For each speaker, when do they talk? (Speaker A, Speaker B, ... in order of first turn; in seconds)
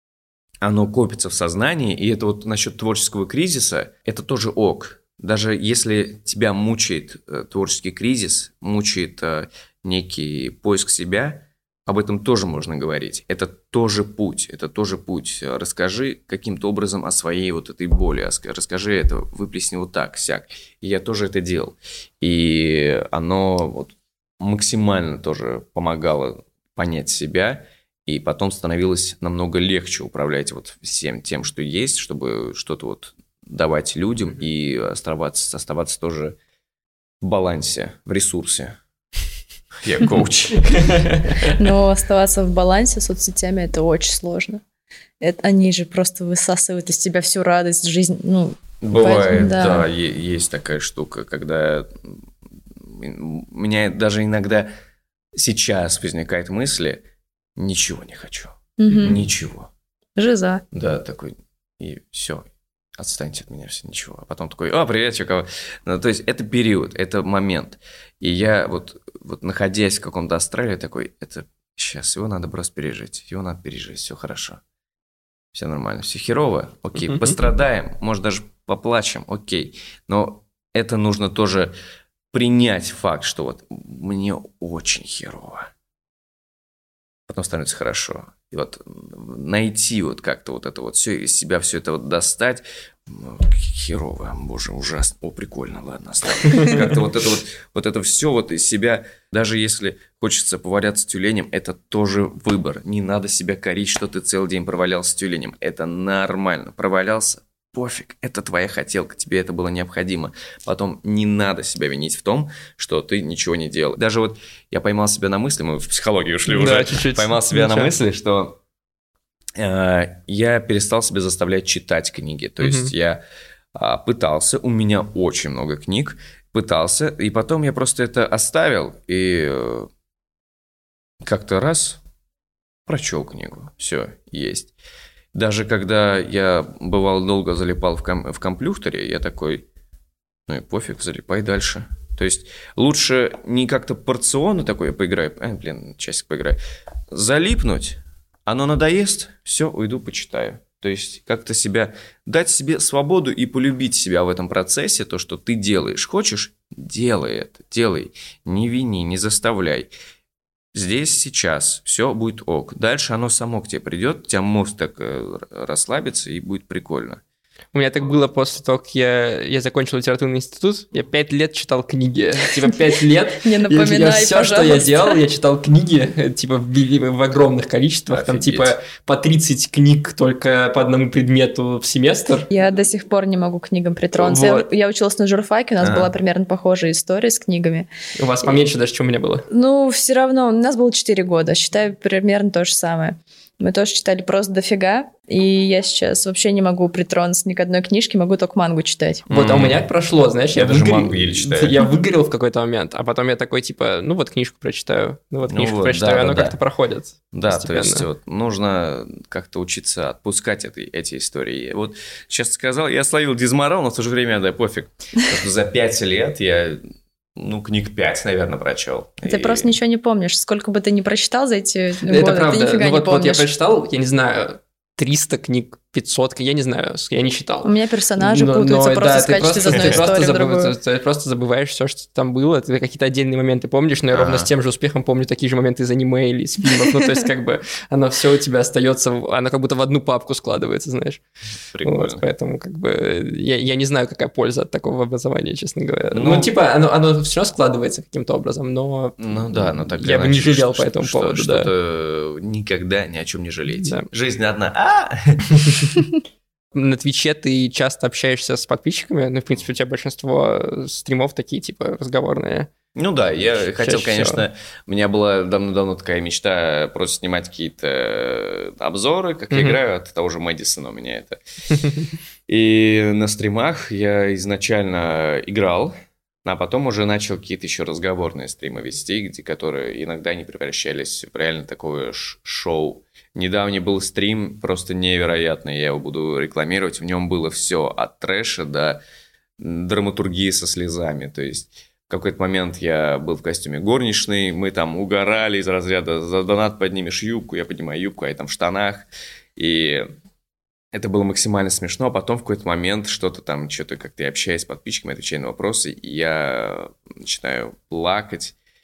Speaker A: 0.6-36.4, 37.2-38.8, 39.8-41.4, 48.8-52.1, 52.8-54.7, 55.4-57.0, 57.5-59.7, 60.7-74.6, 75.5-81.7, 82.3-85.7, 87.3-118.6, 119.5-123.2, 123.7-129.9, 131.2-132.0, 132.9-134.7, 135.3-139.6, 140.5-146.6, 147.1-159.9, 160.7-167.2, 178.1-178.8, 184.1-184.7, 185.8-186.1, 199.3-199.8, 200.5-201.8, 205.5-206.6, 207.3-216.8, 217.3-219.7, 234.1-234.5, 241.7-242.2, 246.1-246.5, 249.2-255.6, 262.9-271.4, 272.5-275.9, 276.4-289.0, 289.6-300.1, 300.9-308.6
Speaker B: 40.7-41.5, 116.5-117.9, 122.6-122.9, 167.7-182.5, 188.2-189.4, 199.3-208.1, 222.1-241.2, 241.8-249.2, 250.0-251.7, 253.8-254.1, 256.7-262.7, 263.7-264.4, 269.5-269.8, 271.7-272.0
Speaker C: 41.4-44.6, 45.2-49.9, 58.8-59.3, 60.2-60.6, 173.4-175.2, 182.5-187.9, 189.5-199.2, 219.2-223.5, 227.6-230.7